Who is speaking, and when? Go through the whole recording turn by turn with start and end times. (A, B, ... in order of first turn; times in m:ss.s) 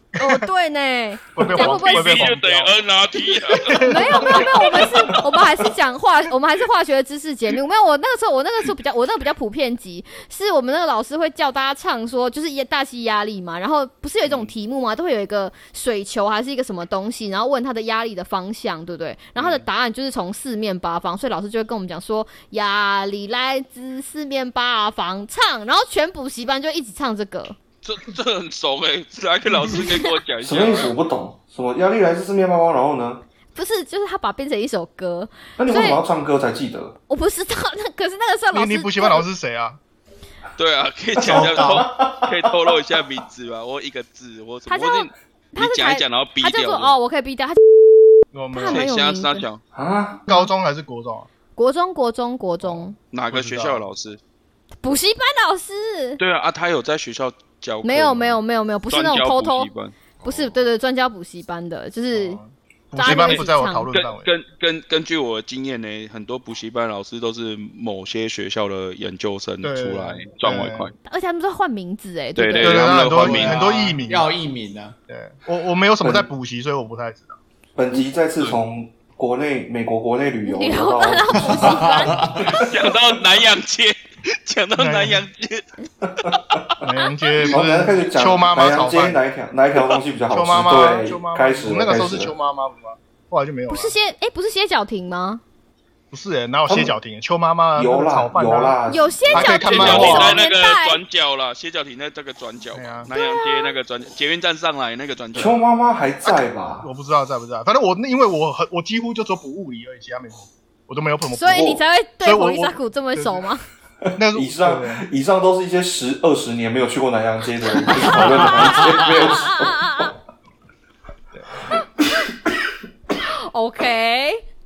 0:00.2-0:02.3 A
0:01.3-0:02.7 B
0:01.4-0:05.1 C
0:03.5-0:04.8 B
0:03.8-0:27.6 A
0:19.4-0:19.6 C
0:27.8-0:30.9 C
0:29.8-0:30.2 A
0:30.4-0:33.2 D
0:33.5-0:36.0 A
0:35.6-0:37.0 D
0:37.1-0:39.2 A
0:38.5-0:39.8 B
0:40.6-0:47.0 C
0:41.2-0:42.7 D
0:41.3-0:41.8 B
0:44.7-0:47.6 A
0:48.3-0:48.8 B
0:48.5-0:49.4 A
0:48.7-0:49.6 C
0:49.7-0:50.2 D
0:50.3-0:51.3 B
0:51.6-0:53.0 A
0:53.1-0:54.2 C
0:53.3-0:53.8 B
0:54.8-0:56.2 A
0:56.2-0:58.4 C
0:57.8-0:59.7 A
0:58.9-1:00.4 C
1:00.2-1:02.4 A
1:02.1-1:04.3 B
1:02.9-1:03.9 A
1:03.0-1:10.9 C
1:09.6-1:10.9 B
1:11.0-1:13.1 A
1:12.4-1:13.6 C
1:12.6-1:14.3 B
1:13.1-1:15.0 E
1:15.1-1:17.4 B
1:16.0-1:16.3 D
1:17.8-1:21.6 D
1:20.4-1:22.6 A
1:21.6-1:22.4 E
1:22.5-1:25.6 C
1:24.8-1:25.2 B
1:26.2-1:26.8 C
1:26.2-1:26.6 D
1:26.8-1:29.2 B
1:27.5-1:32.3 D
1:30.3-1:33.9 B
1:33.7-1:35.4 A
1:36.1-1:38.8 B
1:36.7-1:37.0 D
1:37.7-1:40.4 D
1:38.9-1:41.0 A
1:39.3-1:40.4 B
1:39.7-1:45.6 C
1:42.7-1:43.1 B
1:43.1-1:43.7 A
1:45.3-1:46.9 D
1:46.2-1:53.5 B
1:51.3-1:53.6 A
1:54.0-2:00.1 D
1:54.2-1:55.0 B
1:58.7-2:00.1 A
2:03.3-2:04.4 A